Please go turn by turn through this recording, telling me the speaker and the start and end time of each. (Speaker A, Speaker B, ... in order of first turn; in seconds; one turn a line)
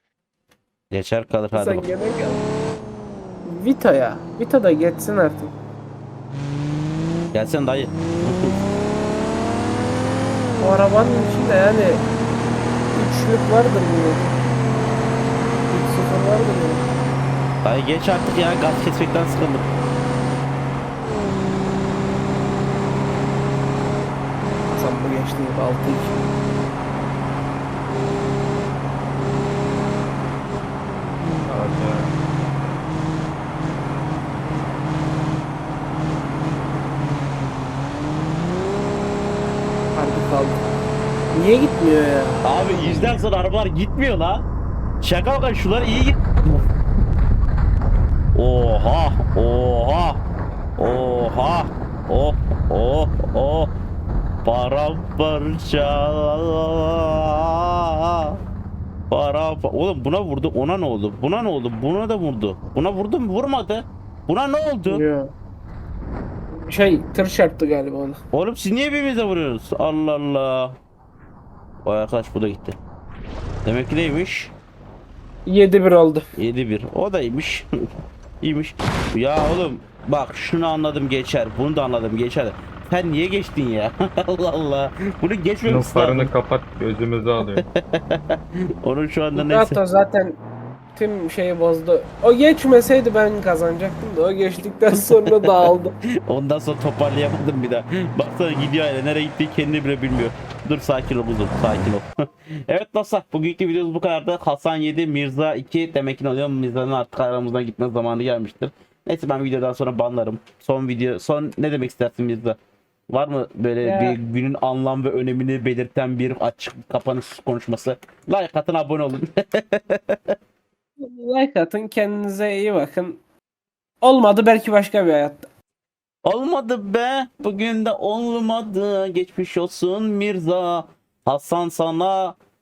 Speaker A: 0.9-1.9
Speaker B: 1.5-2.4
Speaker B: 3.4-5.5
Speaker A: 7.3-8.5
Speaker B: 10.6-12.0
Speaker B: 12.9-14.4
Speaker B: 15.7-16.9
Speaker A: 17.6-19.6
Speaker B: 24.7-26.1
Speaker C: 31.5-32.1
Speaker B: 39.9-40.7
Speaker B: 41.3-42.4
Speaker A: 42.4-44.5
Speaker A: 45.0-46.6
Speaker A: 48.3-50.2
Speaker A: 50.8-53.7
Speaker A: 54.4-58.4
Speaker A: 59.1-65.0
Speaker B: 64.9-65.3
Speaker B: 66.5-68.2
Speaker A: 68.3-70.8
Speaker A: 71.8-72.8
Speaker A: 73.6-74.5
Speaker B: 75.5-76.3
Speaker A: 76.3-77.9
Speaker A: 78.4-86.3
Speaker C: 85.7-87.7
Speaker A: 87.5-89.8
Speaker B: 89.3-90.4
Speaker B: 91.0-95.9
Speaker A: 94.9-95.7
Speaker A: 96.2-102.0
Speaker A: 102.7-112.6
Speaker A: 113.1-120.3
Speaker B: 113.8-114.2
Speaker B: 121.0-123.2
Speaker B: 124.0-125.5
Speaker A: 126.2-132.4